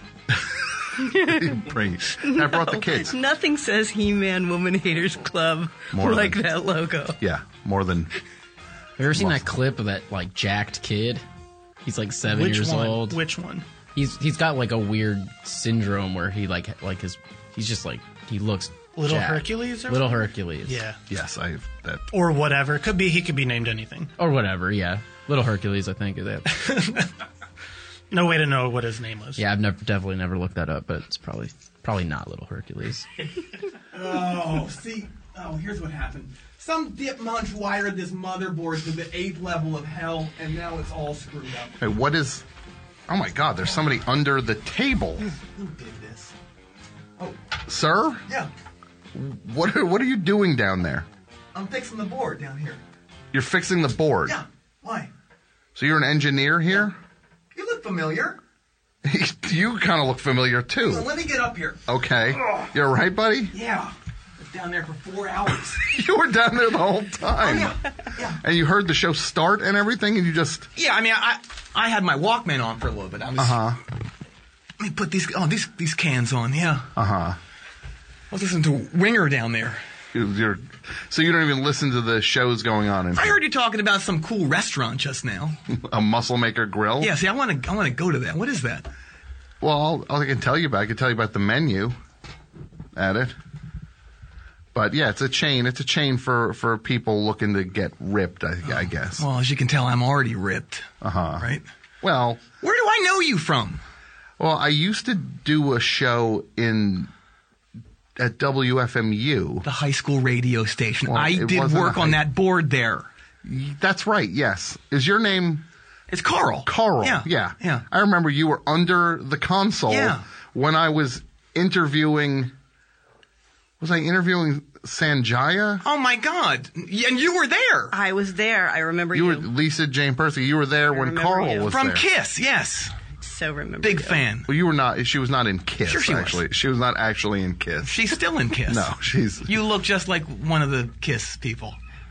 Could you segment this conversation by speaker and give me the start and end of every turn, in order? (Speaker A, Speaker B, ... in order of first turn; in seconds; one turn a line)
Speaker A: 0.3-3.1
Speaker B: 1.0-1.7
Speaker B: 2.2-7.2
Speaker A: 5.9-6.4
Speaker A: 7.2-8.1
Speaker C: 9.0-11.2
Speaker A: 9.1-9.5
Speaker C: 11.8-13.2
Speaker D: 12.2-13.7
Speaker C: 13.9-20.8
Speaker D: 18.9-21.0
Speaker A: 21.1-22.0
Speaker D: 22.1-24.1
Speaker C: 24.2-26.6
Speaker D: 26.5-27.1
Speaker D: 28.1-29.4
Speaker C: 29.4-33.1
Speaker E: 33.9-41.8
Speaker A: 41.8-42.4
Speaker A: 43.1-45.3
Speaker E: 45.5-46.3
Speaker A: 47.7-48.2
Speaker A: 49.1-51.0
Speaker E: 51.5-52.8
Speaker A: 53.3-54.4
Speaker E: 54.3-55.1
Speaker A: 55.8-57.0
Speaker E: 57.5-58.4
Speaker A: 59.0-61.1
Speaker E: 60.8-61.8
Speaker A: 61.9-63.5
Speaker E: 63.5-65.8
Speaker A: 65.8-67.8
Speaker E: 67.4-68.4
Speaker A: 68.4-70.7
Speaker E: 70.8-73.6
Speaker A: 73.4-73.8
Speaker E: 74.8-76.9
Speaker A: 76.9-77.4
Speaker E: 78.3-79.8
Speaker A: 80.1-83.4
Speaker E: 83.1-85.6
Speaker A: 85.7-87.1
Speaker E: 87.0-88.9
Speaker A: 89.6-92.0
Speaker A: 92.9-93.3
Speaker A: 94.7-99.2
Speaker E: 98.6-101.6
Speaker A: 101.0-102.4
Speaker E: 102.6-103.8
Speaker A: 104.4-107.1
Speaker A: 108.2-109.6
Speaker E: 109.6-113.1
Speaker A: 111.1-112.2
Speaker A: 113.4-115.6
Speaker E: 116.1-117.8
Speaker A: 116.6-122.5
Speaker E: 119.9-120.2
Speaker A: 123.8-125.8
Speaker E: 125.8-127.9
Speaker B: 127.9-129.5
Speaker A: 129.1-132.0
Speaker B: 130.9-131.7
Speaker E: 131.7-132.9
Speaker B: 133.2-134.2
Speaker E: 133.8-134.5
Speaker A: 134.5-138.1
Speaker E: 135.8-136.4
Speaker E: 137.8-138.9
Speaker A: 138.7-139.5
Speaker E: 139.4-141.8